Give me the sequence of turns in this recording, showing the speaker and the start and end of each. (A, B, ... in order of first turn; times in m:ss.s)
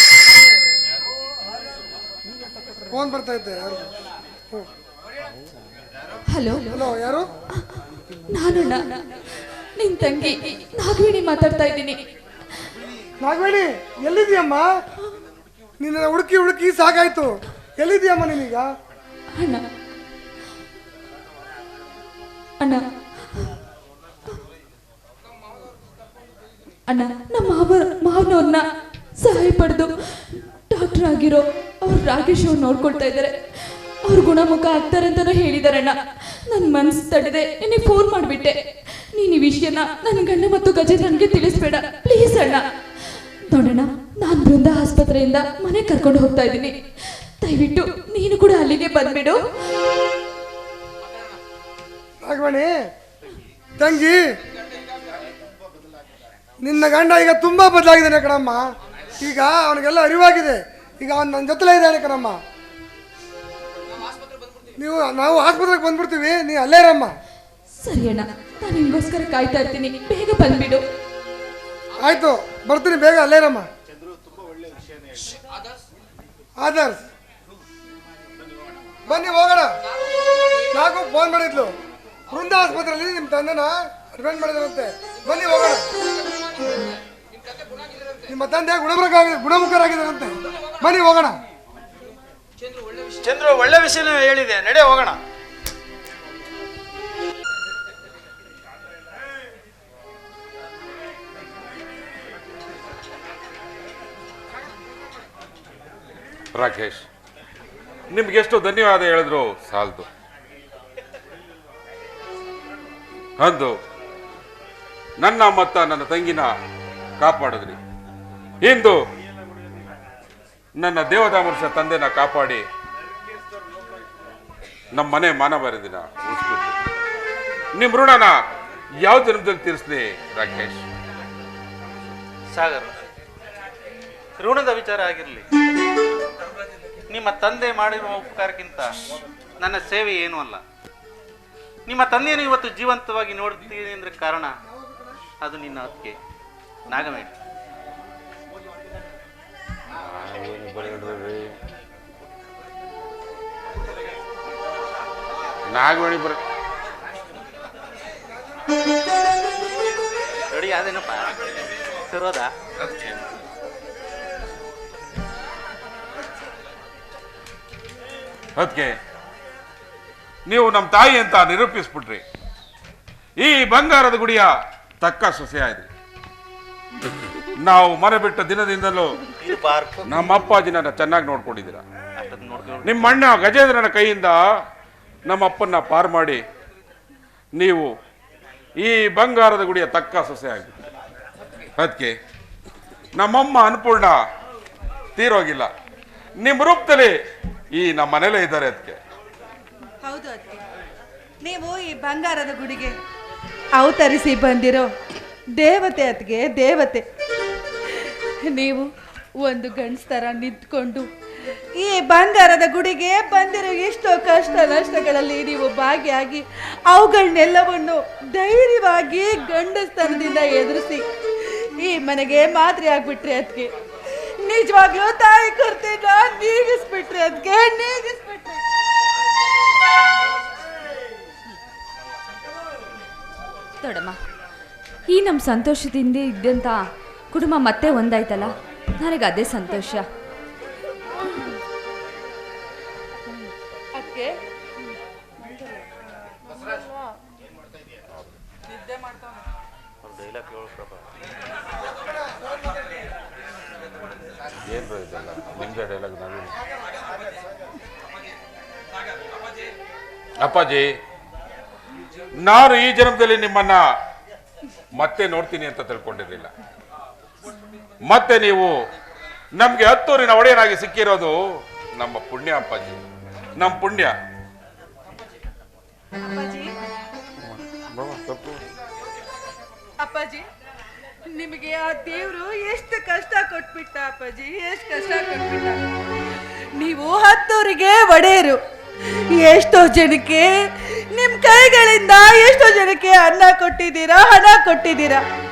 0:02.9-0:03.8 A
0:06.3-0:06.9 B
0:06.7-0:07.2 A
0:08.3-0:09.1 B
0:09.8-0:12.0 B
0:13.2-0:14.7 A
0:15.8-0:18.7 A
0:19.4-0:19.6 B
0:26.9-0:28.6 B
0:29.2-0:33.4 B
0:34.0-0:38.6 B
0:39.1-0:42.6 B
0:43.5-0:46.8 B
0:47.4-0:49.4 B
0:52.2-0:52.7 A
0:53.8-0:54.2 A
0:56.6-0:58.6 A
0:59.2-1:02.4 A
1:04.8-1:07.1 A
1:07.8-1:10.8 B
1:12.0-1:13.7 A
1:16.6-1:17.0 A
1:19.1-1:19.7 A
1:20.7-1:21.7 A
1:22.3-1:25.9 A
1:28.3-1:31.4 A
1:33.2-1:35.2 C
1:46.5-1:47.0 D
1:48.1-1:50.1 D
1:53.4-1:53.7 D
1:55.2-1:56.5 D
1:57.2-1:57.8 D
1:58.6-1:59.0 D
2:00.8-2:02.6 D
2:04.9-2:06.8 D
2:07.8-2:08.4 D
2:09.0-2:10.8 D
2:12.5-2:12.9 E
2:14.4-2:15.4 E
2:17.1-2:18.9 E
2:19.6-2:20.6 E
2:21.9-2:24.5 E
2:25.4-2:26.1 E
2:26.9-2:27.3 E
2:30.1-2:31.5 D
2:35.7-2:36.4 D
2:40.5-2:41.3 E
2:42.0-2:42.5 E
2:42.8-2:43.1 D
2:48.6-2:48.9 D
2:50.5-2:52.2 D
2:53.4-2:54.5 D
2:55.0-2:55.9 D
2:57.6-2:59.2 D
2:59.4-3:00.4 E
3:00.1-3:01.8 D
3:02.2-3:03.2 E
3:02.8-3:04.4 D
3:05.3-3:06.4 D
3:07.6-3:07.9 D
3:08.8-3:10.8 D
3:11.8-3:12.1 D
3:13.2-3:14.2 D
3:15.2-3:15.7 D
3:16.4-3:17.1 D
3:17.7-3:19.0 D
3:20.0-3:20.6 F
3:21.4-3:22.9 F
3:23.8-3:24.9 F
3:25.6-3:27.0 F
3:28.5-3:28.9 F
3:29.4-3:31.0 F
3:31.8-3:41.0 F
3:41.8-3:43.7 F
3:44.4-3:48.6 F
3:53.8-3:54.2 B
3:55.1-4:00.0 B
4:03.3-4:04.3 F
4:06.6-4:07.0 F
4:10.0-4:11.0 E
4:14.7-4:16.5 D
4:20.4-4:20.9 D
4:22.4-4:23.8 D
4:25.0-4:26.5 D
4:28.0-4:28.7 D
4:29.5-4:31.4 D
4:32.0-4:33.0 D
4:33.6-4:34.1 D
4:36.2-4:36.7 F
4:37.4-4:38.6 D
4:40.0-4:40.4 F
4:41.4-4:45.8 F
4:46.8-4:48.6 F
4:49.4-4:50.5 F
4:51.1-4:55.2 F